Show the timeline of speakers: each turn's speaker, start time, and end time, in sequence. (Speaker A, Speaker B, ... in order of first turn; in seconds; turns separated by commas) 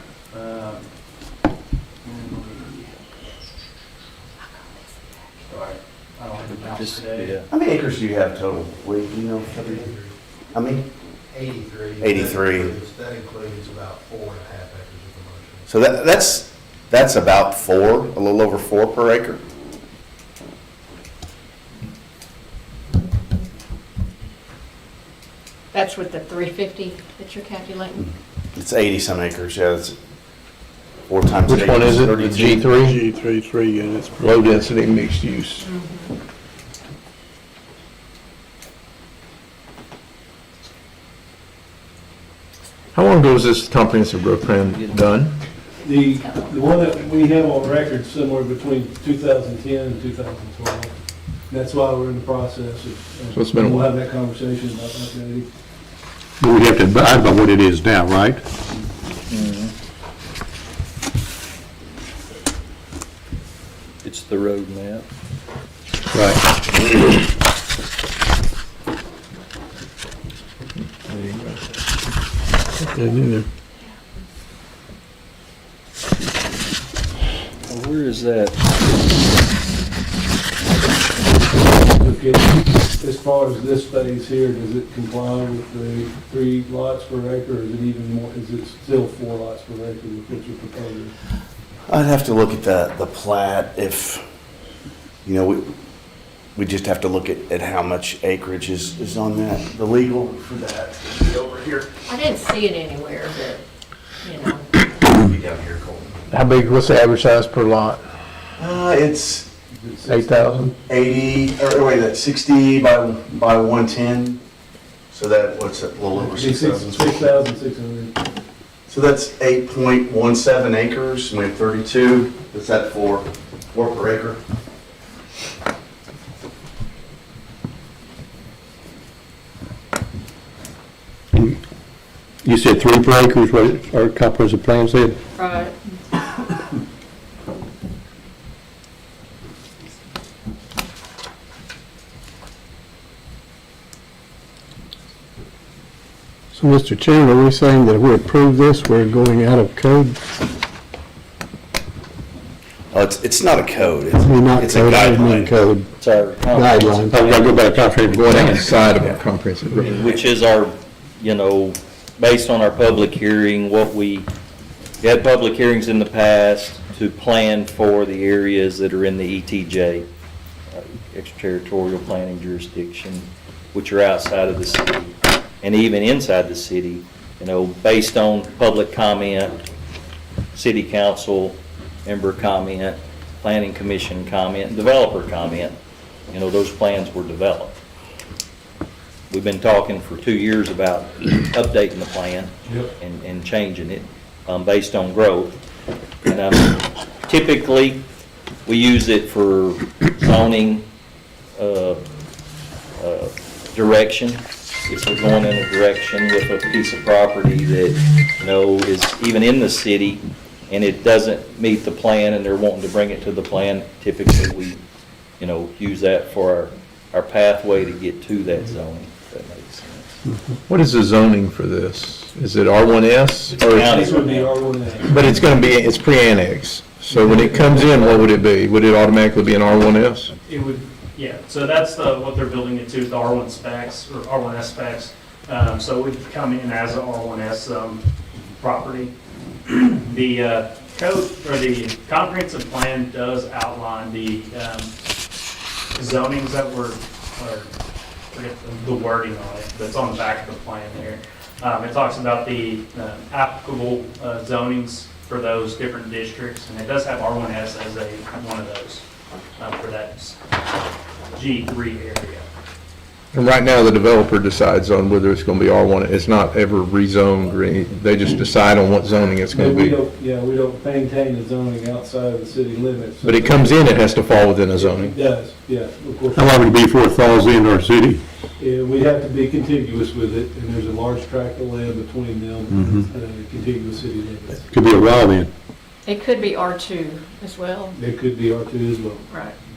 Speaker A: 0.3-0.8, Speaker A: 2.0-2.9, Speaker B: 4.5-4.9, Speaker A: 5.5-7.4, Speaker C: 6.5-7.4, Speaker D: 7.5-9.9, Speaker E: 9.6-10.1, Speaker D: 10.5-10.9, Speaker E: 11.3-15.7, Speaker D: 12.0-12.8, Speaker D: 15.7-19.4, Speaker B: 25.7-28.1, Speaker D: 28.0-29.9, Speaker D: 31.1-32.7, Speaker F: 31.5-33.0, Speaker G: 32.7-34.6, Speaker F: 34.2-35.6, Speaker B: 35.6-36.1, Speaker F: 42.9-45.4, Speaker H: 45.8-50.9, Speaker H: 51.5-55.5, Speaker F: 53.3-53.9, Speaker G: 56.4-58.4, Speaker C: 59.3-59.7, Speaker C: 64.0-65.0, Speaker G: 66.1-66.4, Speaker F: 70.9-71.6, Speaker G: 72.8-73.5, Speaker C: 77.7-78.6, Speaker H: 81.7-91.1, Speaker D: 91.9-94.2, Speaker D: 95.2-95.7, Speaker D: 96.5-101.9, Speaker B: 102.1-103.6, Speaker B: 104.2-104.7, Speaker D: 105.0-106.1, Speaker F: 106.3-108.0, Speaker D: 108.6-109.5, Speaker H: 109.7-110.6, Speaker F: 110.1-110.7, Speaker D: 110.9-114.4, Speaker D: 115.1-117.3, Speaker H: 116.2-118.2, Speaker D: 118.9-124.4, Speaker G: 132.4-135.2, Speaker B: 135.3-135.7, Speaker G: 146.5-150.2, Speaker D: 152.9-155.7, Speaker G: 154.2-155.9, Speaker C: 156.0-158.6, Speaker G: 156.5-158.8, Speaker F: 158.1-160.1, Speaker C: 159.8-164.3, Speaker C: 165.0-170.1, Speaker C: 170.7-179.6, Speaker C: 180.5-185.8, Speaker C: 186.3-187.8, Speaker C: 189.3-195.6, Speaker H: 192.7-192.9, Speaker C: 196.2-198.0, Speaker C: 198.7-200.8, Speaker C: 201.6-202.0, Speaker C: 203.0-214.8, Speaker C: 215.4-220.2, Speaker F: 220.7-224.0, Speaker C: 223.6-224.6, Speaker H: 223.7-225.3, Speaker F: 225.1-230.3, Speaker H: 227.1-227.8, Speaker A: 230.4-239.1, Speaker A: 239.6-244.9, Speaker A: 245.9-247.7, Speaker A: 248.3-259.1, Speaker A: 259.6-260.4, Speaker A: 261.3-262.5, Speaker F: 263.3-270.0, Speaker H: 269.5-273.9, Speaker F: 273.2-275.1, Speaker H: 274.7-276.7, Speaker G: 276.3-278.2, Speaker H: 278.6-284.7, Speaker G: 284.7-285.5, Speaker B: 286.1-288.0, Speaker H: 287.9-289.2, Speaker B: 289.3-289.5